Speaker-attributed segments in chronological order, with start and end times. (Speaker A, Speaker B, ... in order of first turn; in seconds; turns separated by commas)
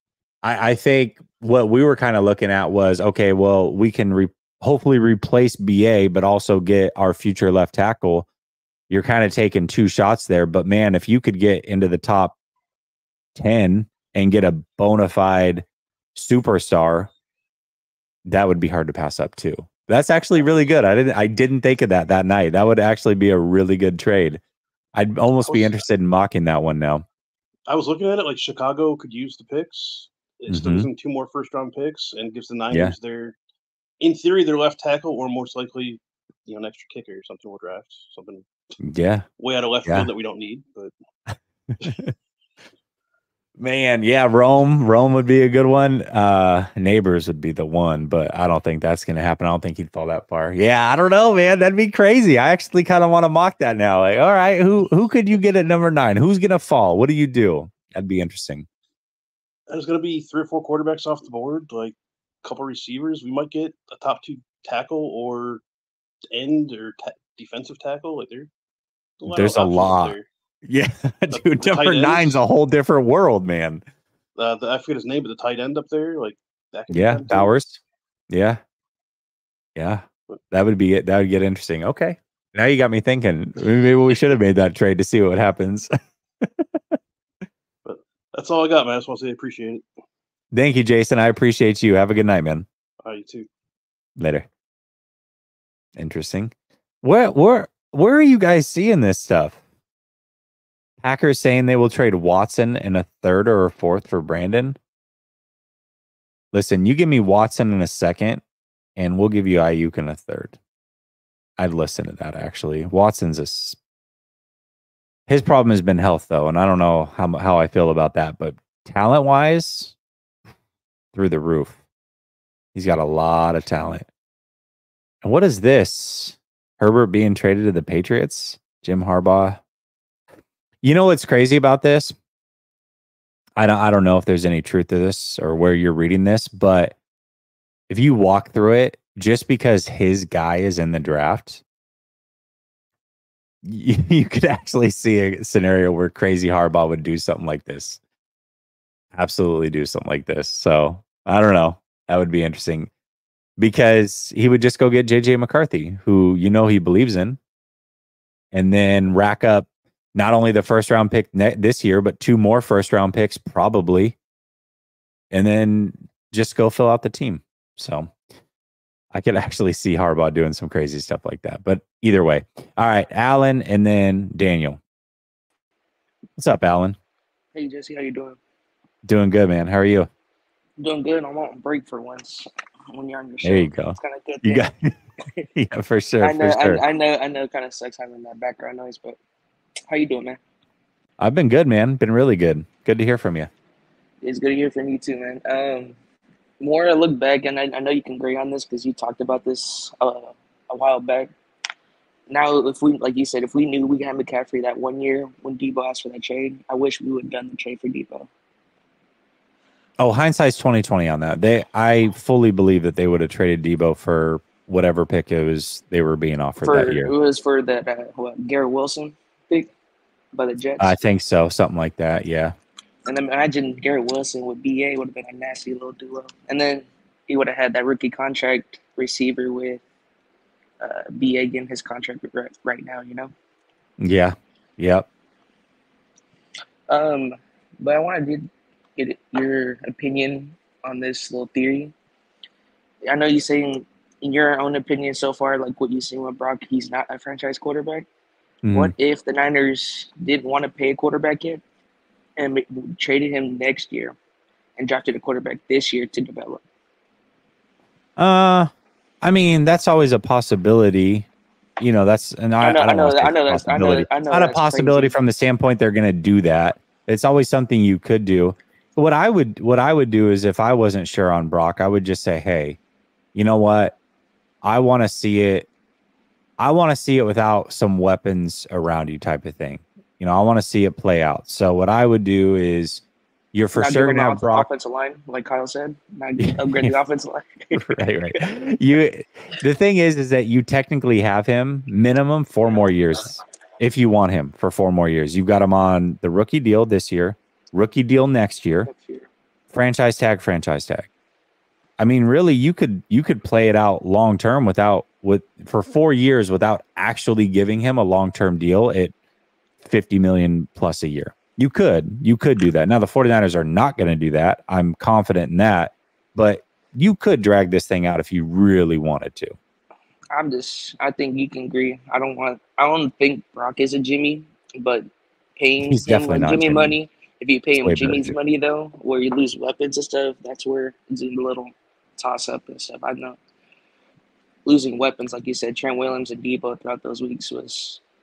Speaker A: 0.4-8.3, Speaker A: 8.9-12.4, Speaker A: 13.4-15.6, Speaker A: 16.1-17.1, Speaker A: 18.2-24.4, Speaker A: 24.9-27.1, Speaker B: 25.4-25.8, Speaker B: 27.7-33.4, Speaker A: 30.5-30.9, Speaker B: 34.0-38.5, Speaker A: 38.8-39.2, Speaker B: 39.4-40.9, Speaker A: 41.8-42.1, Speaker A: 43.6-58.7, Speaker B: 59.7-65.6, Speaker B: 66.3-68.5, Speaker B: 69.2-70.3, Speaker A: 69.3-73.8, Speaker B: 71.3-72.4, Speaker B: 74.4-77.5, Speaker A: 76.9-77.8, Speaker A: 78.3-78.6, Speaker A: 79.8-85.9, Speaker B: 87.8-89.8, Speaker A: 90.5-92.7, Speaker B: 93.0-93.5, Speaker A: 94.2-94.5, Speaker A: 96.0-96.5, Speaker A: 97.0-99.6, Speaker A: 101.0-104.8, Speaker A: 106.5-108.4, Speaker A: 109.0-110.6, Speaker A: 111.6-113.8, Speaker A: 115.3-119.9, Speaker A: 121.1-121.8, Speaker A: 122.8-124.1, Speaker A: 125.2-129.6, Speaker A: 130.8-132.1, Speaker A: 133.6-136.9, Speaker A: 137.9-141.6, Speaker A: 143.6-148.0, Speaker A: 149.2-152.9, Speaker A: 153.6-157.4, Speaker A: 158.5-164.2, Speaker A: 165.3-168.1, Speaker A: 169.1-174.8, Speaker A: 176.4-177.0, Speaker C: 177.5-178.4, Speaker A: 179.1-180.1, Speaker C: 180.8-184.7, Speaker A: 183.4-184.9, Speaker A: 185.5-186.8, Speaker C: 186.2-189.2, Speaker C: 189.9-190.4, Speaker A: 191.2-193.5, Speaker C: 194.2-195.9, Speaker C: 196.6-201.3, Speaker C: 202.3-208.3, Speaker A: 210.0-217.1, Speaker C: 216.6-219.7, Speaker C: 220.3-221.0, Speaker A: 220.8-222.6, Speaker C: 223.1-229.8, Speaker C: 230.8-233.3, Speaker A: 234.0-235.1, Speaker C: 236.9-241.9, Speaker C: 243.1-248.1, Speaker A: 248.6-248.9, Speaker C: 248.7-251.6, Speaker C: 252.4-254.2, Speaker C: 254.8-256.6, Speaker A: 258.2-258.7, Speaker A: 259.2-261.3, Speaker A: 261.8-272.8, Speaker C: 262.6-265.1, Speaker A: 273.4-274.0, Speaker A: 274.6-275.7, Speaker A: 276.6-283.0, Speaker A: 283.5-284.7, Speaker C: 283.7-288.0, Speaker A: 286.4-287.0, Speaker A: 287.7-298.9, Speaker C: 298.9-299.3, Speaker A: 299.7-301.1, Speaker A: 302.0-309.1, Speaker A: 309.8-319.6, Speaker C: 320.3-333.4, Speaker A: 325.8-327.0, Speaker A: 327.8-328.4, Speaker C: 334.7-338.0